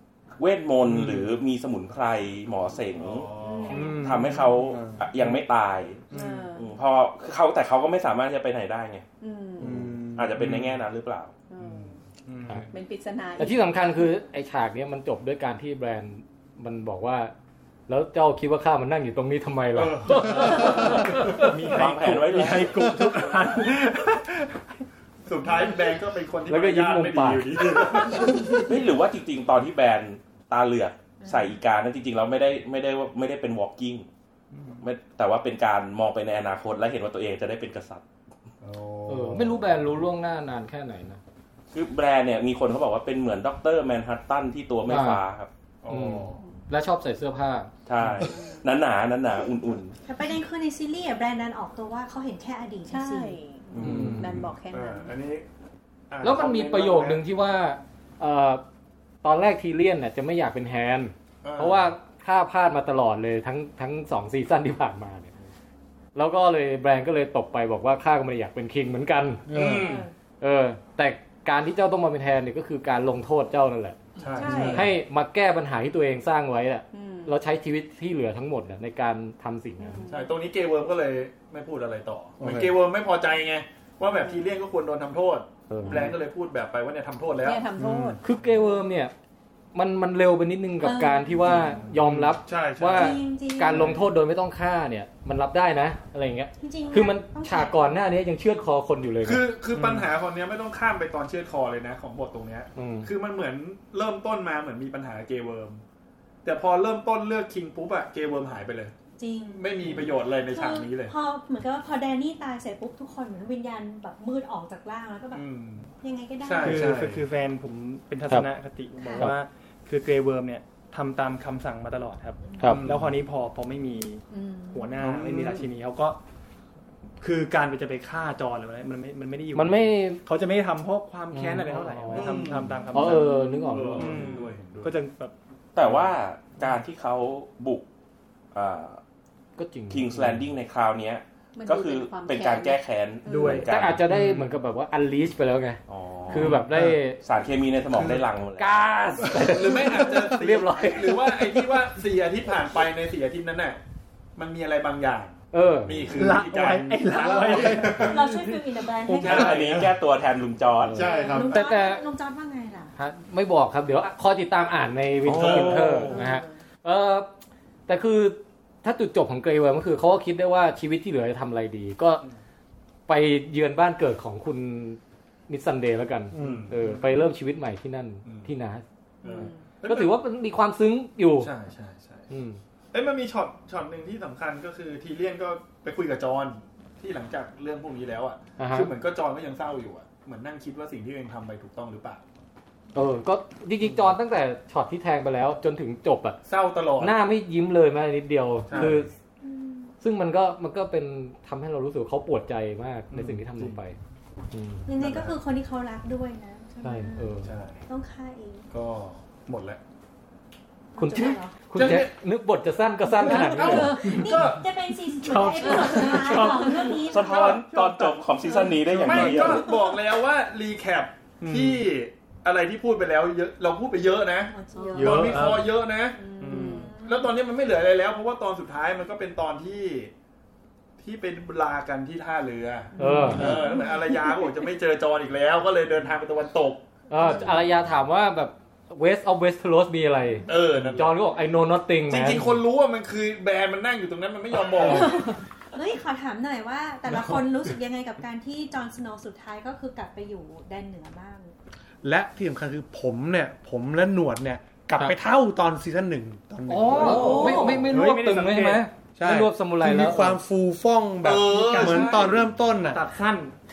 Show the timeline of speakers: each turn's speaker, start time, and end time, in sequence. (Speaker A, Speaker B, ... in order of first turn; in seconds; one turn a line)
Speaker A: 0.4-3.3
Speaker B: 3.0-3.9
Speaker C: 3.4-4.0
Speaker D: 3.6-4.0
Speaker E: 3.7-4.5
Speaker A: 3.9-6.0
Speaker F: 4.5-5.1
Speaker C: 6.1-6.7
Speaker E: 6.1-6.5
Speaker A: 6.5-9.1
Speaker C: 9.2-9.9
Speaker F: 9.6-10.5
Speaker A: 10.1-11.3
Speaker C: 11.5-12.0
Speaker B: 11.6-12.6
Speaker C: 12.7-13.7
Speaker G: 13.4-17.3
Speaker G: 17.9-21.5
Speaker B: 19.8-21.5
Speaker E: 21.3-24.4
Speaker A: 21.7-23.0
Speaker B: 25.2-28.6
Speaker G: 26.5-27.8
Speaker A: 28.5-34.1
Speaker D: 31.2-31.6
Speaker A: 34.8-38.0
Speaker B: 38.6-39.9
Speaker G: 39.1-41.2
Speaker A: 41.7-45.5
Speaker G: 44.9-45.2
Speaker B: 45.8-46.4
Speaker G: 45.9-47.7
Speaker A: 47.9-50.0
Speaker B: 48.0-48.3
Speaker C: 48.2-48.6
Speaker D: 50.0-53.4
Speaker C: 52.9-55.1
Speaker A: 53.7-54.3
Speaker G: 53.8-54.5
Speaker B: 54.7-55.5
Speaker B: 56.1-57.2
Speaker G: 56.2-58.6
Speaker G: 59.2-65.3
Speaker B: 61.4-61.9
Speaker G: 66.2-69.5
Speaker F: 69.5-70.0
Speaker B: 69.5-70.1
Speaker G: 70.4-74.0
Speaker B: 74.2-74.9
Speaker D: 74.3-74.8
Speaker C: 74.3-74.8
Speaker F: 74.5-74.8
Speaker G: 74.7-80.0
Speaker C: 76.9-77.3
Speaker C: 79.8-80.3
Speaker B: 80.1-87.6
Speaker F: 82.4-82.8
Speaker C: 84.1-84.5
Speaker G: 85.7-86.1
Speaker C: 87.4-88.2
Speaker F: 87.8-88.2
Speaker G: 88.2-89.1
Speaker G: 89.7-99.5
Speaker D: 90.8-91.8
Speaker B: 91.6-94.0
Speaker D: 92.9-94.0
Speaker D: 96.6-98.0
Speaker B: 99.2-105.8
Speaker E: 99.7-100.0
Speaker G: 102.8-103.1
Speaker B: 106.4-108.9
Speaker D: 109.2-115.5
Speaker B: 109.5-111.1
Speaker B: 115.3-117.3
Speaker D: 116.0-116.9
Speaker E: 116.6-126.2
Speaker D: 119.0-119.3
Speaker B: 122.7-123.1
Speaker D: 124.3-125.0
Speaker B: 125.0-125.7
Speaker E: 127.2-133.3
Speaker G: 129.5-130.2
Speaker G: 131.3-134.2
Speaker B: 132.1-135.0
Speaker E: 134.0-135.3
Speaker A: 135.8-137.8
Speaker A: 138.5-139.0
Speaker G: 139.6-140.4
Speaker A: 139.9-144.0
Speaker C: 141.6-143.7
Speaker E: 143.2-144.6
Speaker G: 143.7-147.2
Speaker A: 145.9-148.8
Speaker G: 148.6-151.6
Speaker B: 149.4-153.8
Speaker B: 154.4-158.5
Speaker G: 155.5-156.1
Speaker E: 156.2-158.2
Speaker F: 157.6-157.9
Speaker D: 158.0-159.7
Speaker B: 159.1-160.0
Speaker A: 159.2-161.3
Speaker G: 160.8-162.0
Speaker B: 160.9-161.7
Speaker D: 161.0-162.9
Speaker G: 163.0-167.3
Speaker B: 165.3-166.3
Speaker A: 165.3-166.1
Speaker C: 166.1-166.5
Speaker G: 167.9-172.2
Speaker G: 173.1-178.8
Speaker F: 176.3-176.7
Speaker B: 176.4-177.1
Speaker B: 178.2-178.5
Speaker B: 179.2-180.2
Speaker C: 179.2-179.6
Speaker G: 179.8-181.5
Speaker B: 181.4-182.3
Speaker G: 182.3-182.6
Speaker B: 182.9-192.2
Speaker G: 188.6-188.9
Speaker G: 192.9-196.4
Speaker B: 196.4-197.2
Speaker G: 197.0-199.1
Speaker B: 198.7-199.1
Speaker D: 199.4-199.9
Speaker G: 200.0-204.0
Speaker B: 203.1-203.8
Speaker G: 204.5-204.9
Speaker D: 204.8-208.7
Speaker B: 205.0-205.4
Speaker G: 206.8-207.5
Speaker B: 207.4-207.8
Speaker B: 208.7-209.8
Speaker D: 210.9-211.7
Speaker G: 211.0-214.0
Speaker B: 211.7-212.1
Speaker D: 213.2-217.6
Speaker B: 213.2-214.7
Speaker E: 214.0-214.6
Speaker E: 215.1-218.2
Speaker C: 215.6-216.9
Speaker A: 217.1-219.7
Speaker E: 218.7-219.5
Speaker B: 219.0-226.2
Speaker C: 219.5-219.7
Speaker E: 221.4-221.8
Speaker D: 224.5-225.4
Speaker C: 224.7-225.2
Speaker E: 224.9-225.8
Speaker C: 226.2-227.0
Speaker E: 226.4-226.9
Speaker D: 226.5-227.3
Speaker B: 227.0-230.1
Speaker B: 231.0-236.8
Speaker G: 233.0-233.5
Speaker E: 233.0-233.6
Speaker C: 233.1-234.3
Speaker G: 237.1-242.6
Speaker B: 240.5-241.2
Speaker B: 242.1-245.2
Speaker D: 244.9-245.2
Speaker D: 245.7-251.5
Speaker F: 252.0-257.5
Speaker G: 256.7-260.4
Speaker E: 257.0-258.9
Speaker C: 257.1-257.8
Speaker D: 257.1-257.9
Speaker F: 259.2-263.0
Speaker B: 261.2-262.5
Speaker E: 261.5-262.3
Speaker E: 262.9-263.6